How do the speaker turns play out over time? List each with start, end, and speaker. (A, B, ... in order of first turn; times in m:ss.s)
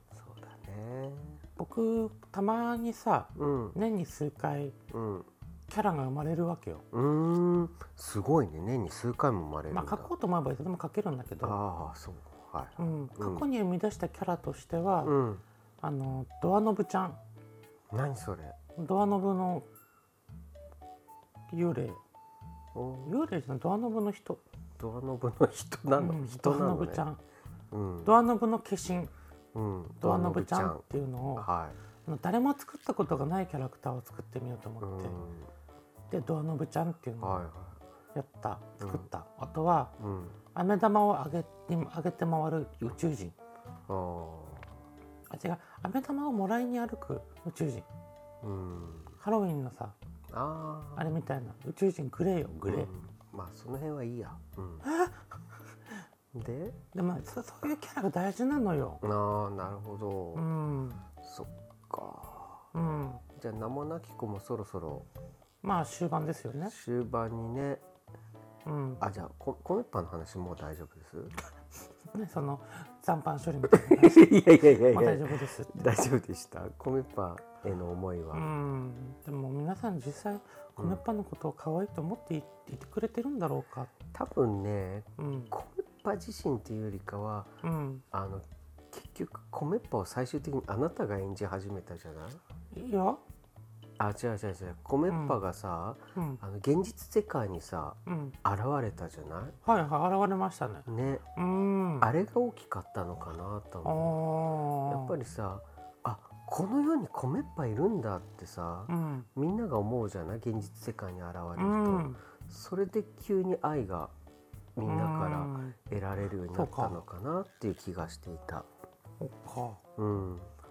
0:00.1-0:01.4 A
0:01.6-0:04.8 B
0:03.4-0:03.8 A
0:04.9-0:05.3 A
0:05.7-0:06.8 B
0:06.9-0:10.1 A
0:09.7-0:11.6 B
0:11.4-0:13.5 A
0:12.8-0:15.1 B
0:15.0-0:15.4 A
0:15.8-0:17.2 B
0:17.9-0:18.6 A
0:18.8-0:19.6 B
0:21.5-0:22.0 B
0:22.7-0:23.2 A
0:23.0-0:24.4 B
0:24.8-0:27.0 A
0:26.0-0:27.2 B
0:27.7-0:28.1 A
0:28.0-0:29.1 B
0:29.5-0:31.8 A
0:30.0-0:31.5 B
0:32.0-0:35.2 B
0:34.8-0:35.5 A
0:36.1-0:37.4 B
0:37.2-0:37.8 A
0:38.1-0:40.0 B
0:38.8-0:39.0 A
0:40.0-0:40.4 A
0:40.5-0:43.3 B
0:43.9-0:44.8 A
0:45.3-0:47.9 B
0:48.4-0:49.2 A
0:49.2-0:50.0 B
0:50.3-0:51.1 A
0:51.0-0:52.9 B
0:52.7-0:54.8 A
0:54.8-0:55.2 B
0:56.3-0:56.8 A
0:56.9-0:59.0 B
0:59.0-1:00.4 A
1:00.3-1:01.0 B
1:01.2-1:02.7 A
1:02.7-1:03.2 B
1:03.3-1:05.1 A
1:05.6-1:06.7 B
1:06.7-1:07.8 A
1:08.6-1:09.0 B
1:09.0-1:11.3 A
1:12.1-1:15.9 B
1:13.7-1:18.5 A
1:18.3-1:23.9 B
1:24.1-1:27.5 A
1:25.2-1:25.5 B
1:27.6-1:28.0 B
1:28.1-1:32.4 A
1:32.7-1:33.2 B
1:34.0-1:39.6 A
1:35.1-1:35.4 B
1:36.2-1:36.4 B
1:38.0-1:38.4 B
1:39.6-1:42.1 B
1:40.8-1:41.2 A
1:42.0-1:44.2 A
1:43.8-1:45.1 B
1:44.8-1:54.1 A
1:48.9-1:49.3 B
1:51.6-1:52.2 B
1:54.8-1:58.7 A
1:54.8-1:55.8 B
1:56.5-1:57.0 B
1:59.2-1:59.8 B
2:00.0-2:00.5 A